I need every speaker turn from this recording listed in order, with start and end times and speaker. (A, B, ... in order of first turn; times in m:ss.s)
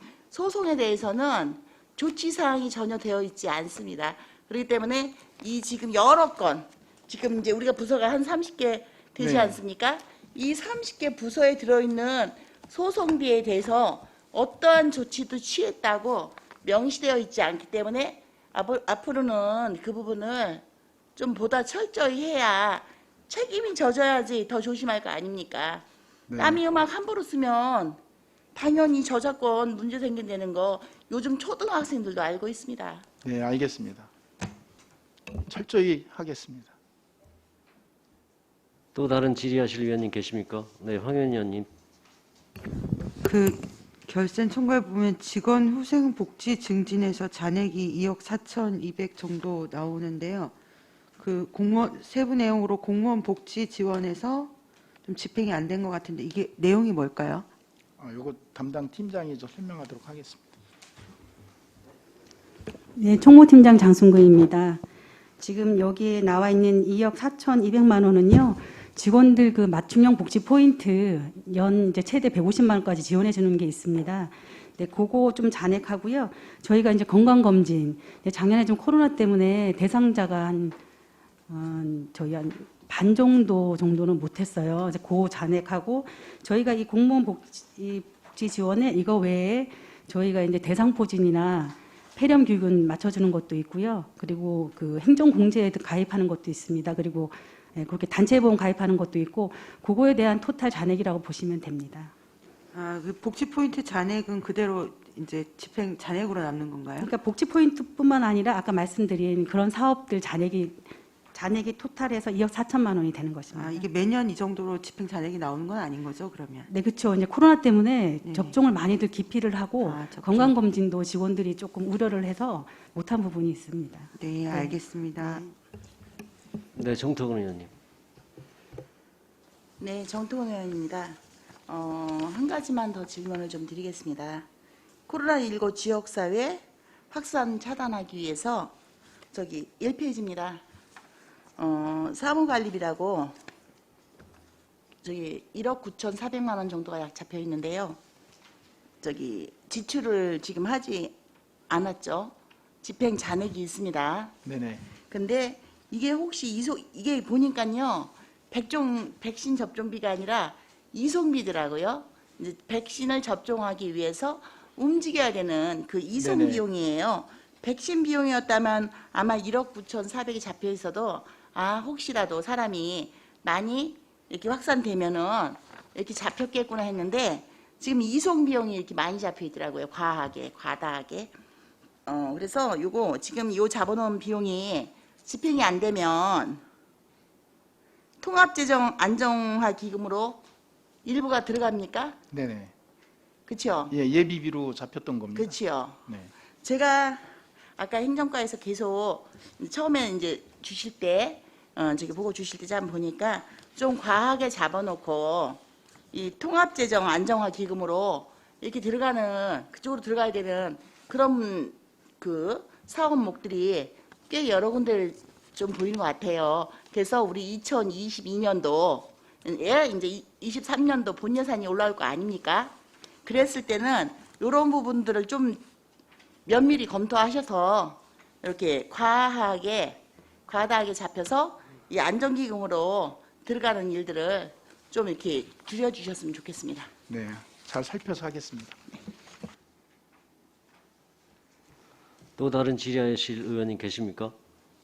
0:00.3-0:20.6 A
0:09.2-0:09.6 B
0:21.2-0:25.9 A
0:26.3-0:26.6 B
0:26.4-0:28.0 A
0:28.5-0:33.0 A
0:33.2-0:34.1 B
0:35.4-0:36.8 B
0:39.0-0:41.7 C
0:43.2-0:50.6 D
0:51.2-0:54.5 D
0:55.0-0:57.5 D
0:58.0-1:00.5 B
1:03.0-1:04.8 E
1:05.4-1:20.8 E
1:21.5-1:42.1 E
1:42.7-1:47.1 D
1:47.0-1:53.9 E
1:53.5-1:56.7 D
1:56.7-2:05.4 E
1:58.2-1:58.6 D
1:59.8-2:00.5 D
2:04.2-2:05.5 D
2:06.8-2:07.7 C
2:09.8-2:14.5 A
2:15.1-2:18.8 A
2:19.3-2:20.6 A
2:21.6-2:23.4 A
2:25.0-2:28.0 A
2:29.0-2:31.2 A
2:31.7-2:34.4 A
2:34.4-2:34.9 B
2:35.0-3:01.4 A
2:46.2-2:46.6 B
3:02.1-3:06.6 A
3:08.2-3:10.4 A
3:11.0-3:12.2 A
3:12.3-3:12.7 B
3:13.5-3:13.9 A
3:13.9-3:15.6 B
3:15.4-3:16.0 A
3:16.1-3:16.3 B
3:16.6-3:45.6 A
3:46.5-3:56.9 A
3:57.1-3:58.8 B
4:02.4-4:04.3 C